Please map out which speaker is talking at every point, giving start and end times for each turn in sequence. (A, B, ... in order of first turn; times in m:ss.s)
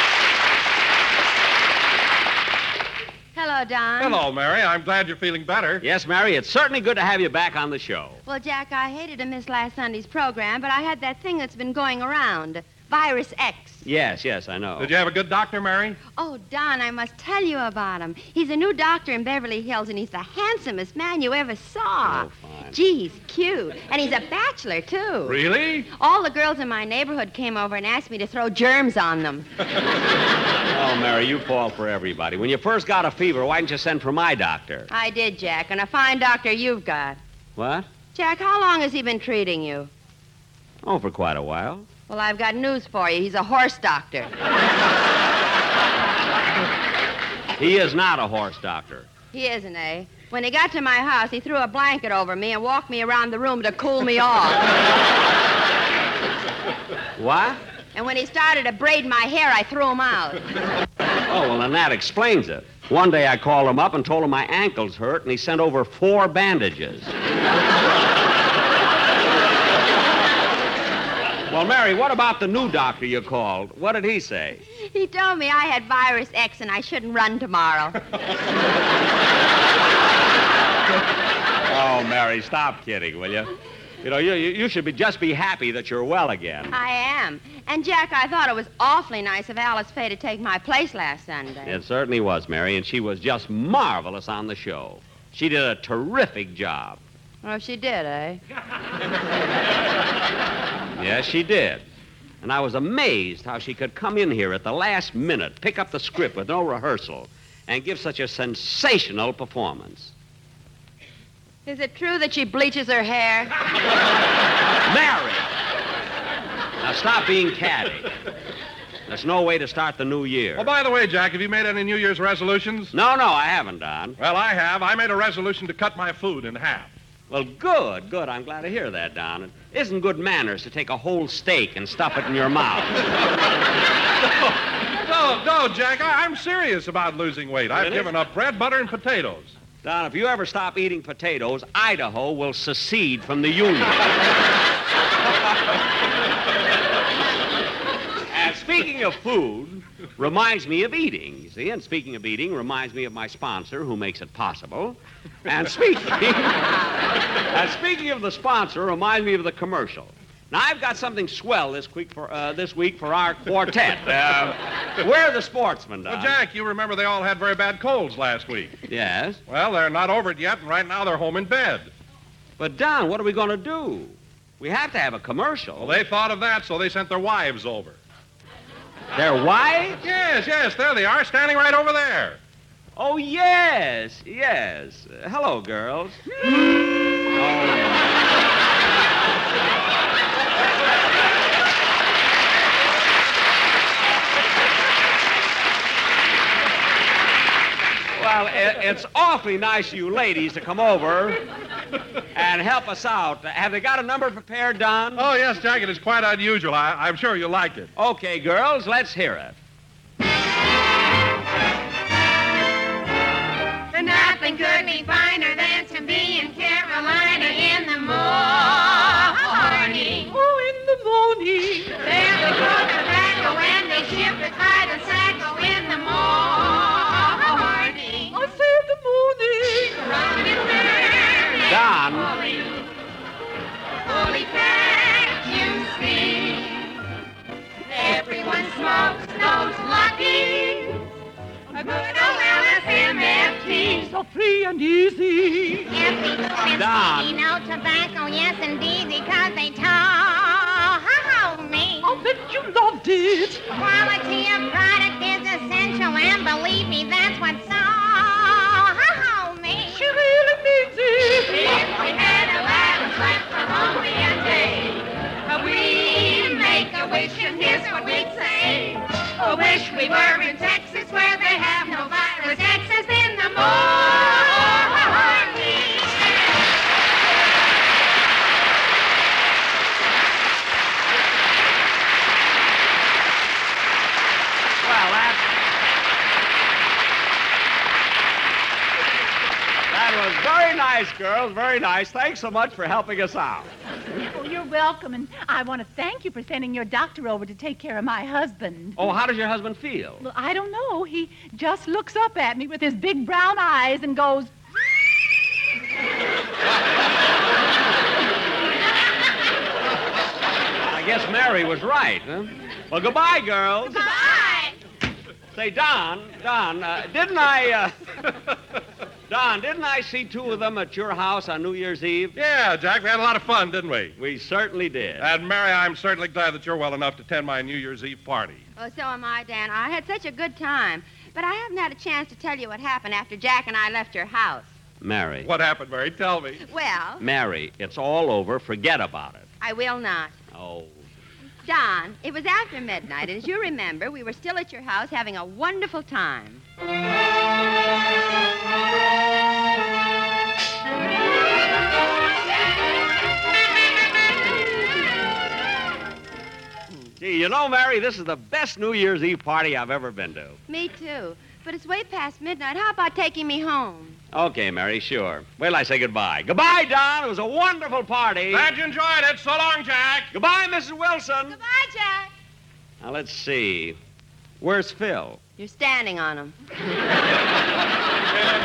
0:03.3-0:04.2 A
0:04.0-0:05.8 B
0:05.8-0:08.2 C
0:08.3-0:13.8 A
0:13.8-0:14.9 C
0:14.8-0:16.0 B
0:16.2-0:25.4 A
0:22.0-0:22.8 C
0:25.3-0:25.9 B
0:26.0-0:29.5 A
0:30.7-0:34.9 C
0:34.9-0:37.2 A
0:37.6-0:37.9 C
0:38.1-0:39.9 A
0:40.8-0:41.9 C
0:42.1-0:44.3 A
0:47.6-0:49.1 C
0:49.3-0:54.6 A
0:57.2-0:57.6 C
0:57.9-1:00.4 A
1:01.3-1:07.1 C
1:11.5-1:14.6 C
1:14.8-1:18.0 A
1:21.7-1:26.8 C
1:26.7-1:31.8 A
1:31.7-1:37.0 C
1:37.4-1:38.4 A
1:41.0-1:41.9 C
1:42.4-1:50.1 C
1:51.7-1:53.5 A
1:54.9-1:55.5 C
1:56.8-1:58.1 C
1:59.1-2:00.7 C
2:00.6-2:02.9 B
2:02.9-2:04.2 C
2:04.2-2:06.9 B
2:07.3-2:13.1 C
2:14.5-2:19.5 B
2:17.8-2:18.1 C
2:19.8-2:24.1 C
2:28.3-2:36.8 C
2:37.4-2:46.4 C
2:46.1-2:48.8 B
2:48.9-2:49.4 C
2:49.5-2:51.9 B
2:52.6-2:56.0 C
2:55.8-2:58.0 B
2:59.2-3:00.0 C
3:00.0-3:02.4 B
3:03.0-3:06.2 C
3:07.3-3:08.0 C
3:18.2-3:21.4 C
3:22.3-3:25.3 C
3:25.2-3:27.9 B
3:28.0-3:29.6 C
3:33.9-3:40.3 D
3:40.3-3:42.0 E
3:42.0-3:48.4 D
3:48.3-3:50.1 E
3:50.0-3:51.7 D
3:51.7-3:52.3 C
3:52.3-3:52.8 D
3:54.1-3:57.0 D
3:57.9-4:01.1 D
4:01.8-4:02.1 E
4:01.8-4:04.1 D
4:03.9-4:05.9 E
4:05.9-4:12.1 D
4:06.7-4:07.4 C
4:12.0-4:13.7 E
4:13.7-4:20.1 D
4:19.9-4:21.7 E
4:21.5-4:36.2 D
4:44.8-4:45.5 C
4:49.9-4:53.7 C
4:54.3-4:59.0 E
4:59.0-5:00.2 C
5:00.2-5:04.5 E
5:10.8-5:14.1 C
5:14.0-5:14.8 D
5:15.5-5:18.0 C
5:19.3-5:22.4 C
5:22.4-5:24.2 B
5:24.2-5:25.3 C
5:25.2-5:28.6 B
5:28.8-5:34.7 A
5:35.0-5:35.5 C
5:35.4-5:36.6 B
5:36.7-5:37.2 A
5:37.2-5:39.5 C
5:39.6-5:40.4 A
5:40.5-5:41.0 C
5:41.6-5:46.6 A
5:57.2-6:00.6 C
6:00.7-6:04.2 A
6:04.3-6:08.7 C
6:08.5-6:10.3 B
6:10.3-6:11.6 C
6:11.5-6:12.3 A
6:13.0-6:14.0 C
6:14.6-6:15.4 C
6:15.6-6:16.5 A